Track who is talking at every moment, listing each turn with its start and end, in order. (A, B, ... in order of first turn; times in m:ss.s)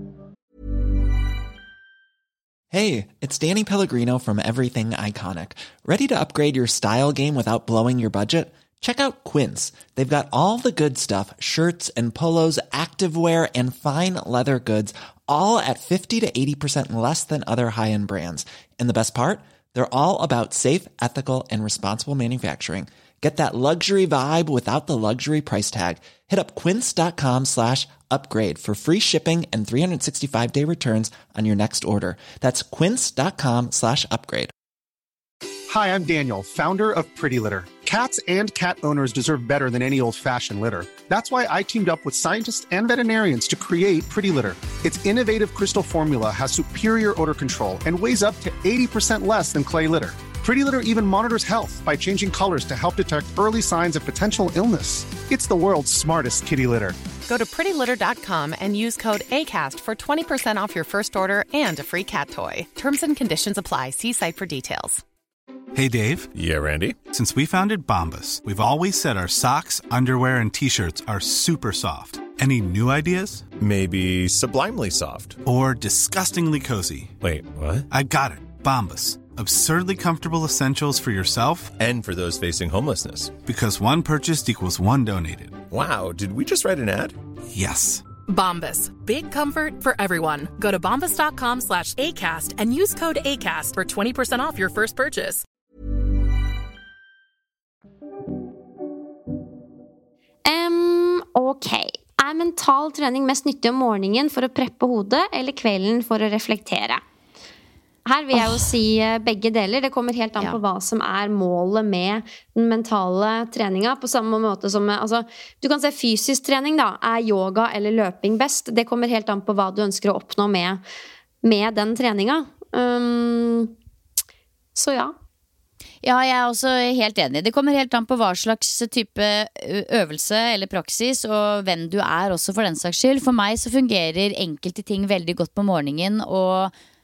0:02.7-0:34.5 A
0:35.7-0:57.0 B
0:57.3-1:05.0 C
1:05.7-1:06.3 D
1:06.3-1:07.0 E
1:07.1-1:13.5 D
1:13.5-1:15.4 E
1:15.4-1:17.2 D
1:17.2-1:17.9 E
1:17.9-1:21.8 D
1:21.8-1:23.4 E
1:23.4-1:25.6 D
1:25.7-1:27.1 E
1:27.5-1:28.1 D
1:28.2-1:35.4 C
1:40.4-1:47.0 F
1:48.0-2:00.8 F
1:48.3-1:48.7 G
2:01.4-2:03.7 F
2:04.7-2:05.1 F
2:06.0-2:16.7 G